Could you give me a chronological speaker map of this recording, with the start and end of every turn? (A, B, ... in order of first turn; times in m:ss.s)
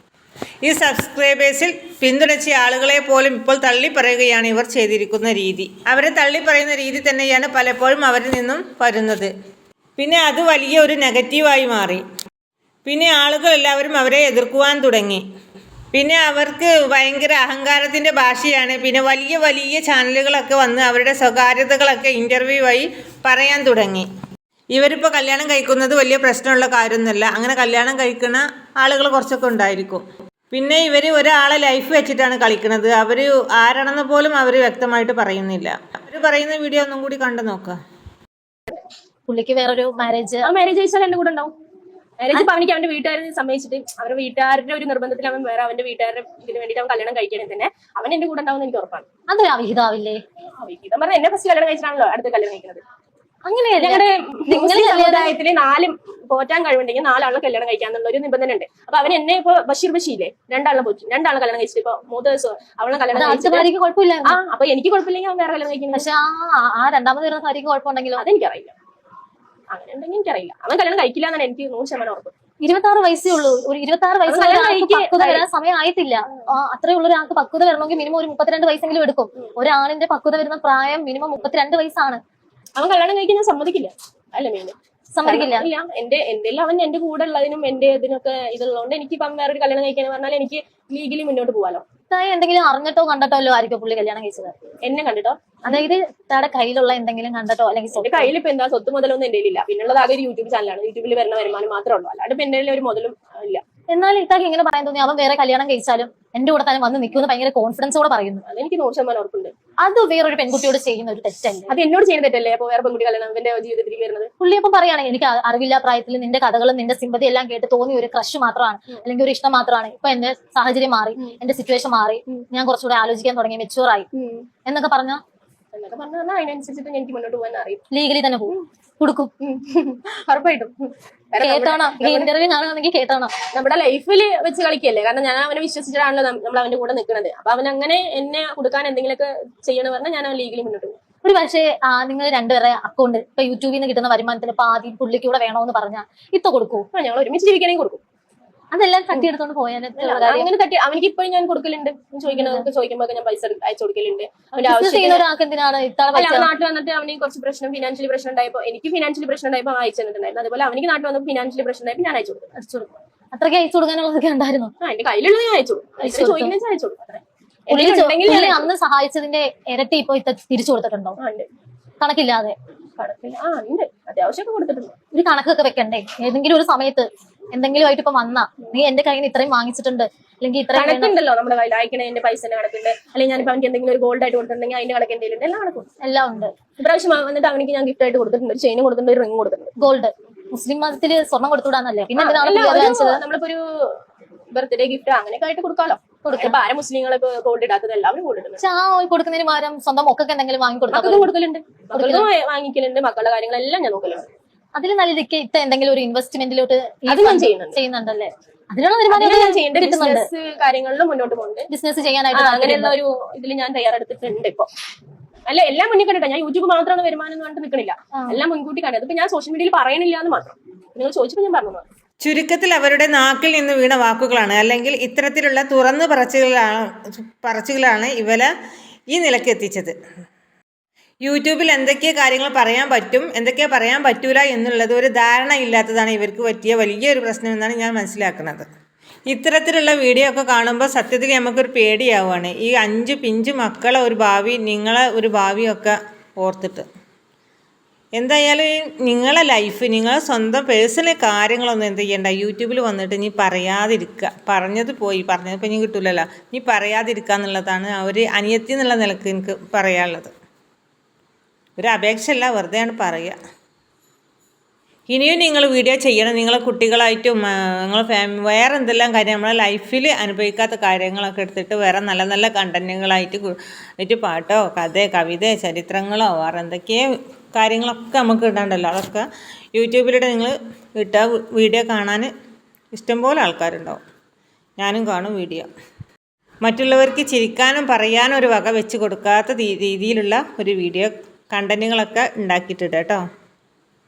0:00.6-0:09.3 A
0:10.0-0:12.0 A
0:12.9-0:15.2 A
0:15.9-0:24.0 A
0:24.7-0:37.8 A
0:39.3-0:40.5 B
0:40.4-0:41.5 C
0:42.2-0:49.1 C
0:49.3-0:50.2 B
0:50.6-0:52.8 C
0:53.5-0:55.3 B
0:53.8-1:03.7 C
1:03.1-1:04.4 B
1:04.2-1:06.0 C
1:05.9-1:08.2 B
1:08.2-1:08.8 C
1:09.7-1:12.3 C
1:12.6-1:22.2 B
1:14.3-1:15.4 C
1:22.8-1:31.8 C
1:25.2-1:25.7 B
1:32.1-1:34.5 B
1:34.8-1:35.8 C
1:35.7-1:38.3 B
1:38.0-1:43.6 C
1:43.9-1:48.4 B
1:48.5-1:49.5 C
1:49.8-1:51.7 B
1:51.7-1:54.3 C
1:54.4-2:04.1 B
2:04.1-2:04.5 C
2:04.7-2:05.2 B
2:05.7-2:07.8 C
2:07.9-2:09.3 B
2:09.4-2:12.3 C
2:11.4-2:13.3 B
2:13.5-2:21.0 C
2:21.2-2:26.8 B
2:26.9-2:28.0 C
2:28.7-2:30.5 B
2:30.0-2:35.2 C
2:32.3-2:32.7 B
2:34.7-2:36.5 B
2:36.2-2:42.5 C
2:42.6-2:44.7 B
2:44.8-2:48.7 C
2:46.0-2:46.5 B
2:47.7-2:51.2 B
2:51.2-2:51.5 C
2:52.0-2:52.6 B
2:53.0-2:55.0 C
2:55.1-3:01.1 B
3:00.8-3:05.9 C
3:06.0-3:06.5 B
3:06.8-3:09.7 C
3:09.8-3:13.2 B
3:12.2-3:14.0 C
3:14.5-3:18.6 C
3:16.2-3:16.6 B
3:18.6-3:21.3 B
3:20.9-3:24.3 C
3:21.9-3:22.3 B
3:24.8-3:30.3 B
3:27.1-3:27.8 C
3:29.1-3:31.7 C
3:31.7-3:32.9 B
3:32.3-3:34.7 C
3:35.5-3:41.8 C
3:42.2-3:48.5 A
3:49.1-3:49.9 A
3:51.2-3:58.6 A
3:59.3-4:06.8 A
4:08.2-4:20.3 A
4:21.8-4:23.4 A
4:25.1-4:37.0 A
4:37.5-4:42.3 A
4:42.9-4:44.0 A
4:44.8-4:45.7 A
4:46.6-4:53.2 A